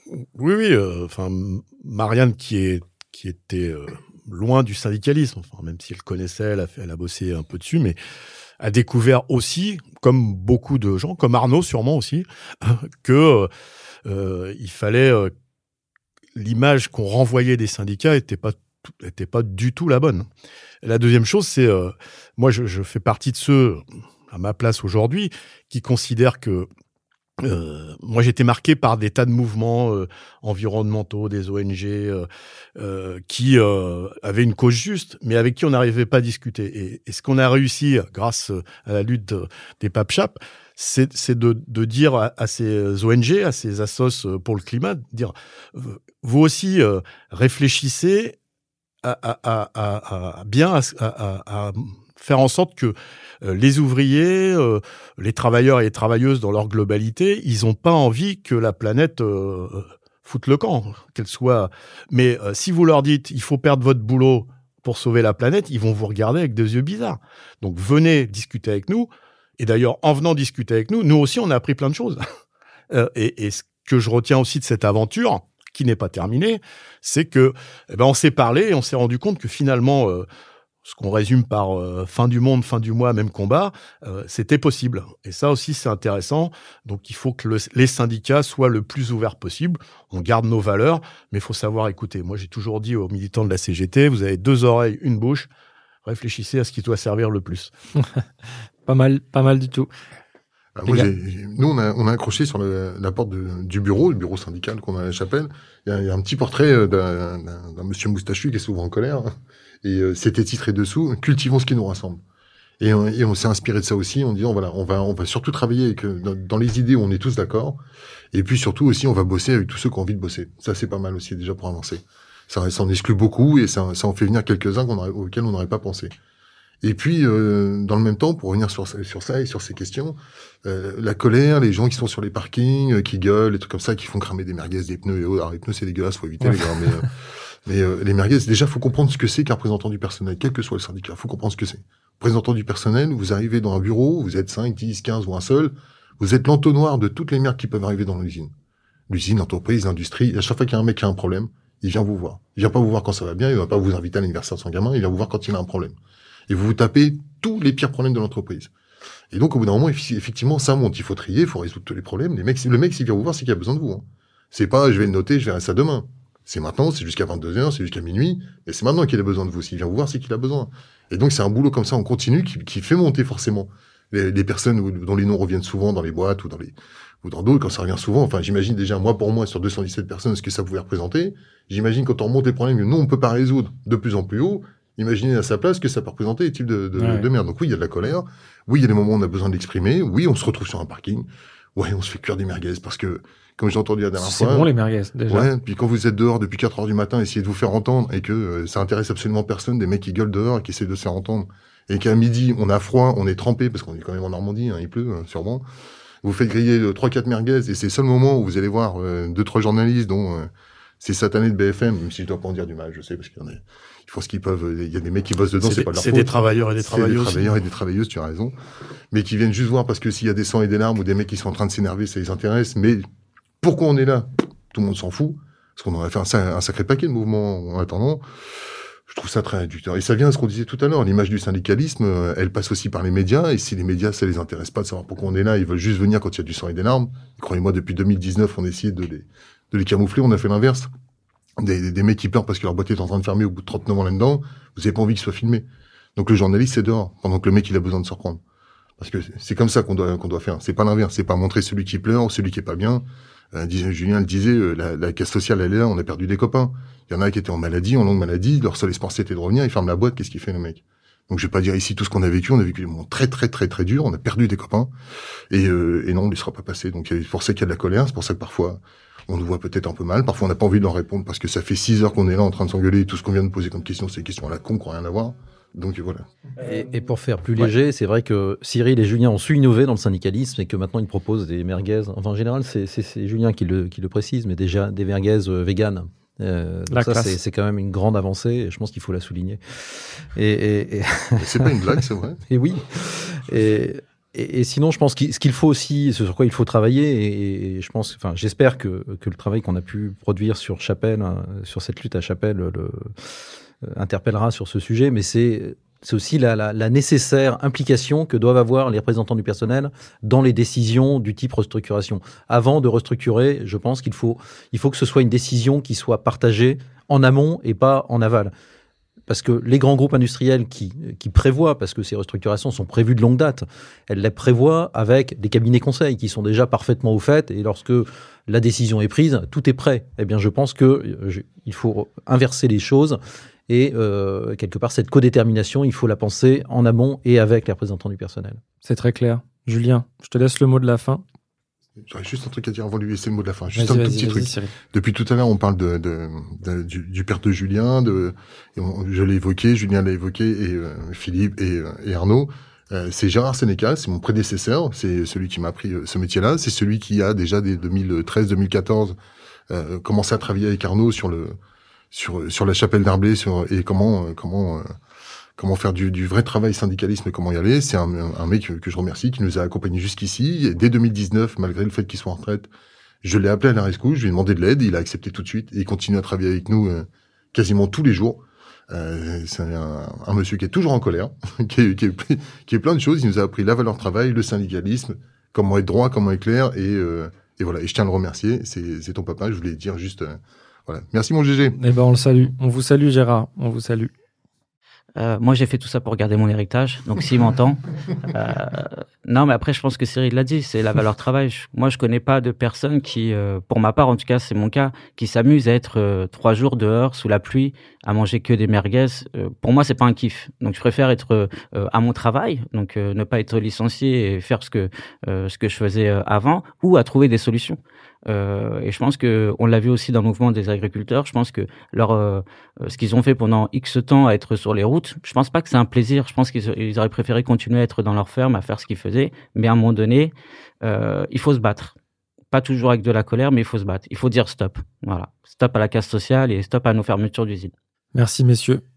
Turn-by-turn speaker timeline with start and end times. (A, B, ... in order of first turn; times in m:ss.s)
0:00.4-0:08.0 A
0:08.6-0:13.5 A
0:14.0-0:15.3 A
0:16.4-0:20.3 A
0:20.8-0:26.7 A
0:27.4-0:48.4 A
0:49.0-1:12.2 A
1:12.9-1:20.3 A
1:20.8-1:35.5 A
1:36.0-1:37.7 A
1:38.9-1:39.9 B
1:40.8-1:49.3 C
1:49.8-1:52.2 C
1:52.8-1:57.8 C
1:58.3-2:06.1 C
2:06.8-2:17.1 C
2:16.4-2:17.0 B
2:17.7-2:28.5 C
2:29.1-2:36.0 C
2:36.5-2:38.7 C
2:39.3-3:14.7 C
3:07.0-3:07.3 B
3:14.2-3:15.5 B
3:15.3-3:25.6 C
3:26.2-3:38.6 C
3:35.6-3:37.5 A
3:39.1-3:43.0 C
3:43.6-3:48.2 C
3:49.1-4:00.9 C
4:01.6-4:08.4 C
4:09.0-4:24.9 C
4:25.5-4:36.3 C
4:36.6-4:51.9 D
4:46.9-4:47.4 B
4:51.4-4:52.4 C
4:52.5-5:03.1 D
5:03.8-5:18.5 D
5:19.3-5:38.6 D
5:38.8-5:41.2 B
5:42.0-5:59.2 C
5:43.7-5:44.7 B
5:59.7-6:01.6 C
6:02.1-6:04.9 C
6:05.6-6:12.7 C
6:13.2-6:31.8 C
6:31.8-6:34.1 B
6:35.2-7:12.0 E
7:12.5-7:17.7 E
7:18.2-7:18.8 B